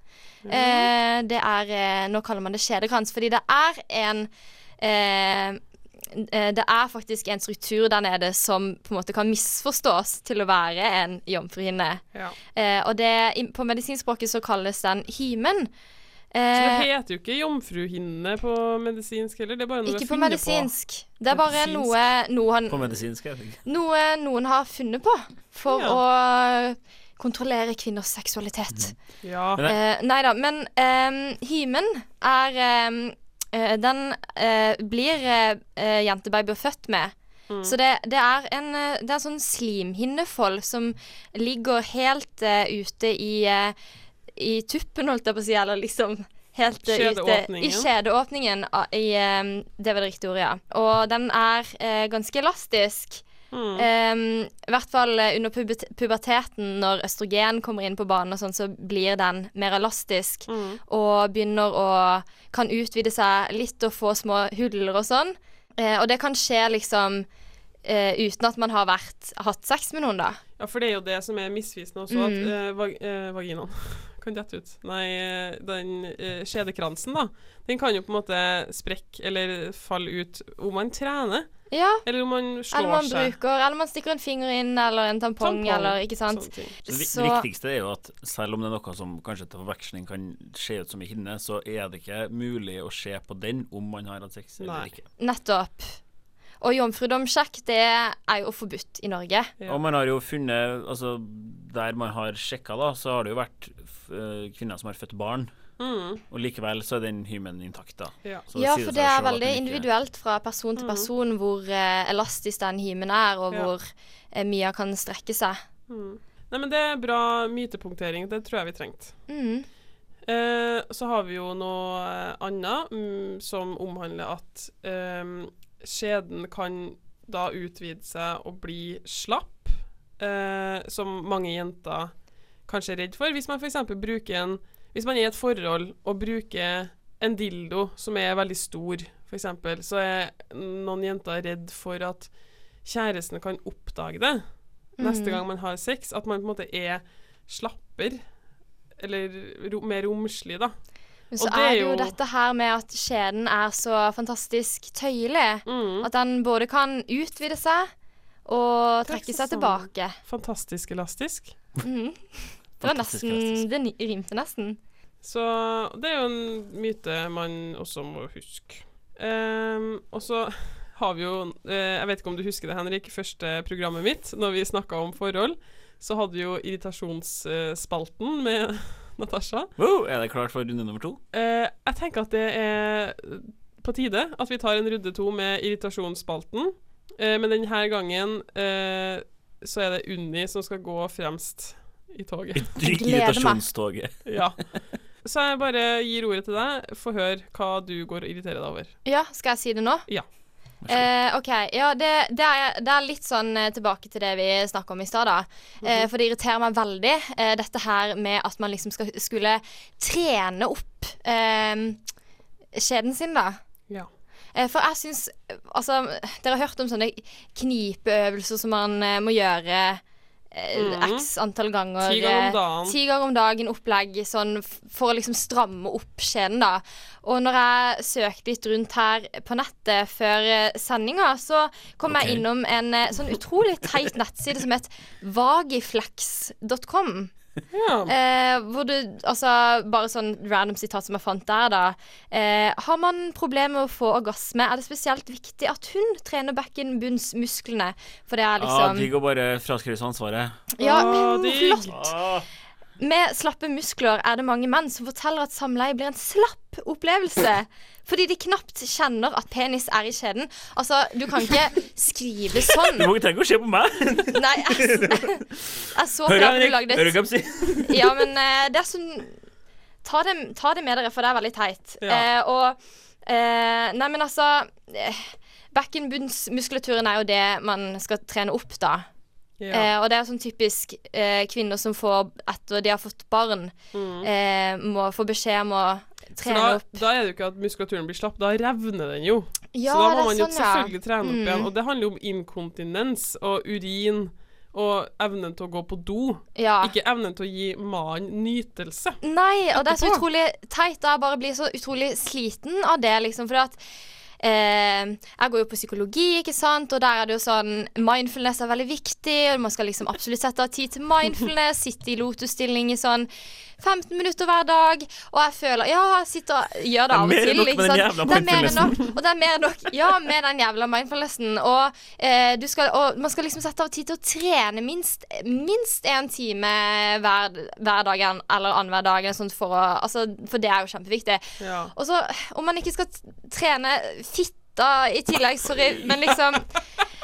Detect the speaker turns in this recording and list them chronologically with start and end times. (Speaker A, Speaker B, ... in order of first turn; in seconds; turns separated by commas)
Speaker A: 0.4-0.9, Speaker B: 0.5-5.6, Speaker B: 6.1-12.0, Speaker B: 12.5-15.7, Speaker B: 16.3-16.9, Speaker A: 16.5-20.7, Speaker B: 19.9-22.9, Speaker A: 21.3-21.9, Speaker C: 22.7-23.6, Speaker B: 23.6-28.9, Speaker A: 25.7-26.0, Speaker A: 29.2-29.6, Speaker B: 29.6-43.8, Speaker A: 37.5-37.7, Speaker B: 44.4-53.2, Speaker A: 46.9-47.9, Speaker A: 53.5-53.9, Speaker B: 53.8-67.3, Speaker A: 60.5-60.8, Speaker B: 67.8-70.4, Speaker A: 70.6-81.5, Speaker B: 72.1-72.5, Speaker B: 81.7-82.0, Speaker A: 82.0-83.3, Speaker B: 82.7-87.5, Speaker A: 85.4-86.8, Speaker C: 86.9-95.0, Speaker A: 94.6-94.9, Speaker B: 95.2-96.0, Speaker B: 96.6-99.5, Speaker C: 99.7-105.5, Speaker A: 105.8-106.2, Speaker C: 106.3-109.9, Speaker B: 108.5-115.6, Speaker A: 110.8-111.1, Speaker A: 115.9-119.1, Speaker B: 119.3-119.7, Speaker A: 120.2-132.1, Speaker A: 132.7-142.3, Speaker A: 142.8-144.4, Speaker B: 145.0-145.4, Speaker A: 145.0-148.2, Speaker A: 149.0-150.7, Speaker B: 151.3-157.9, Speaker A: 151.4-152.2, Speaker A: 155.7-156.1, Speaker B: 158.4-160.2, Speaker A: 159.1-161.5, Speaker B: 161.8-164.8, Speaker C: 162.8-163.6, Speaker A: 165.2-179.7, Speaker C: 179.8-181.2, Speaker A: 181.3-192.7, Speaker C: 192.5-194.3, Speaker B: 192.8-193.6, Speaker A: 194.2-194.6, Speaker A: 195.2-198.9, Speaker B: 199.0-200.1, Speaker C: 200.8-201.1, Speaker B: 200.9-212.0, Speaker B: 212.7-213.6, Speaker B: 214.5-237.3, Speaker A: 220.8-221.3, Speaker A: 222.0-223.0, Speaker C: 232.1-232.4, Speaker A: 237.7-238.1, Speaker B: 238.1-249.1, Speaker C: 248.6-250.6, Speaker B: 250.7-252.0, Speaker A: 250.8-251.9, Speaker C: 251.9-252.5, Speaker B: 253.0-263.1, Speaker C: 262.8-268.2, Speaker B: 264.3-265.4, Speaker B: 265.9-267.2, Speaker B: 267.8-269.4, Speaker B: 270.0-279.1, Speaker A: 279.6-279.9, Speaker B: 279.7-287.0, Speaker A: 283.9-284.3, Speaker A: 286.4-299.2, Speaker B: 289.7-291.7, Speaker B: 296.6-296.9, Speaker B: 299.2-303.8, Speaker A: 299.9-300.2, Speaker B: 304.4-313.3, Speaker B: 313.8-336.7, Speaker C: 317.1-319.0, Speaker A: 331.6-331.9